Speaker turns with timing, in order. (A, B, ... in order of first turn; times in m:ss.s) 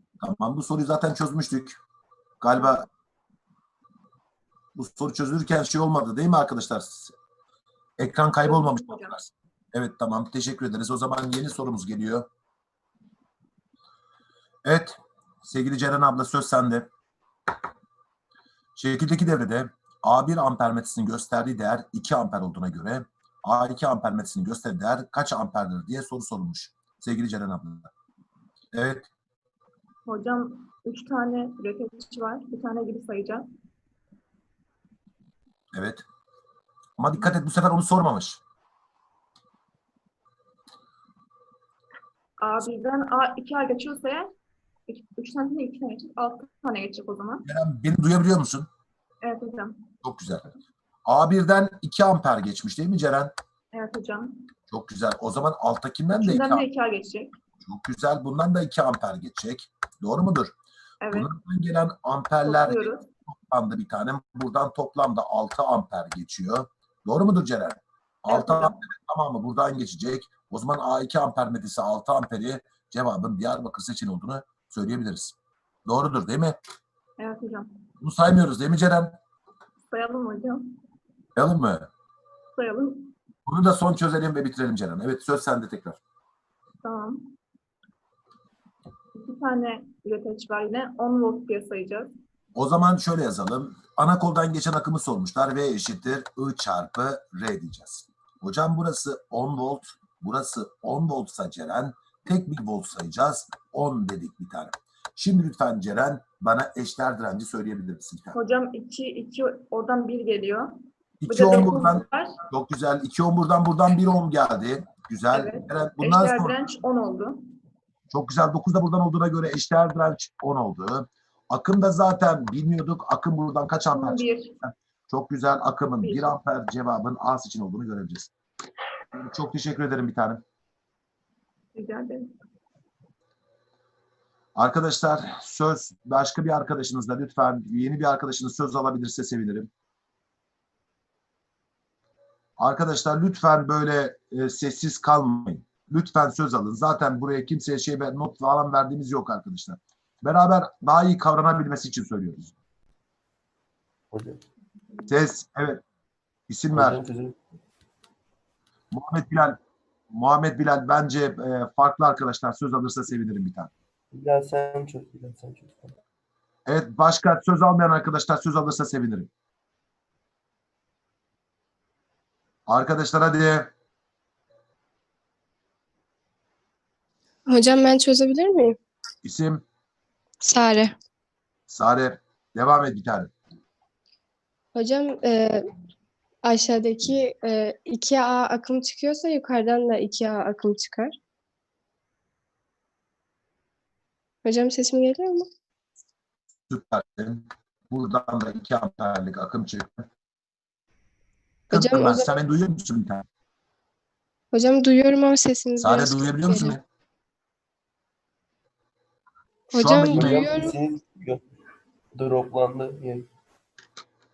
0:00.2-0:01.8 A
0:02.4-0:02.9 A
0:04.8-0:07.1 A
0:08.0-0:12.3 A
0:08.4-0:09.2 B
0:14.6-0:16.9 A
0:18.8-0:27.9 A
0:28.7-0:29.1 A
0:30.0-0:33.5 B
0:35.7-0:36.0 A
0:37.0-0:38.4 A
0:42.4-0:44.3 B
0:44.9-0:47.4 B
0:47.4-0:48.7 A
0:49.2-0:49.8 B
0:50.0-0:50.5 A
0:51.0-0:53.3 A
0:53.7-0:54.5 B
0:54.7-0:56.7 A
0:56.2-0:57.3 B
0:57.6-1:00.5 A
1:01.0-1:01.3 B
1:01.1-1:15.3 A
1:02.4-1:03.1 B
1:08.3-1:08.8 B
1:15.8-1:16.6 A
1:17.2-1:17.7 B
1:18.0-1:19.2 A
1:19.9-1:20.8 B
1:21.4-1:21.9 A
1:22.6-1:23.1 B
1:23.5-1:26.0 A
1:26.8-1:27.3 B
1:29.1-1:32.1 B
1:32.5-1:48.4 A
1:48.3-1:52.4 B
1:51.2-1:56.6 A
1:55.3-1:57.4 B
1:58.1-2:08.3 A
2:03.9-2:04.5 B
2:06.0-2:06.4 B
2:09.1-2:10.4 A
2:11.7-2:12.3 B
2:14.5-2:19.7 A
2:22.6-2:32.5 A
2:34.1-2:34.4 C
2:35.1-2:35.8 A
2:36.5-2:37.0 A
2:36.7-2:37.4 C
2:38.9-2:39.6 A
2:40.1-2:43.7 A
2:44.1-2:46.0 C
2:46.7-2:49.3 A
2:52.7-2:53.7 A
2:57.5-2:58.8 D
2:59.2-2:59.6 A
3:00.4-3:00.9 D
3:01.7-3:03.3 A
3:04.7-3:05.6 D
3:06.4-3:11.1 D
3:14.4-3:15.5 D
3:16.7-3:20.0 A
3:21.7-3:23.2 A
3:21.7-3:22.3 D
3:24.5-3:26.8 D
3:25.8-3:26.8 A
3:29.7-3:30.8 D
3:29.7-3:30.5 A
3:30.1-3:31.4 C
3:32.1-3:33.3 C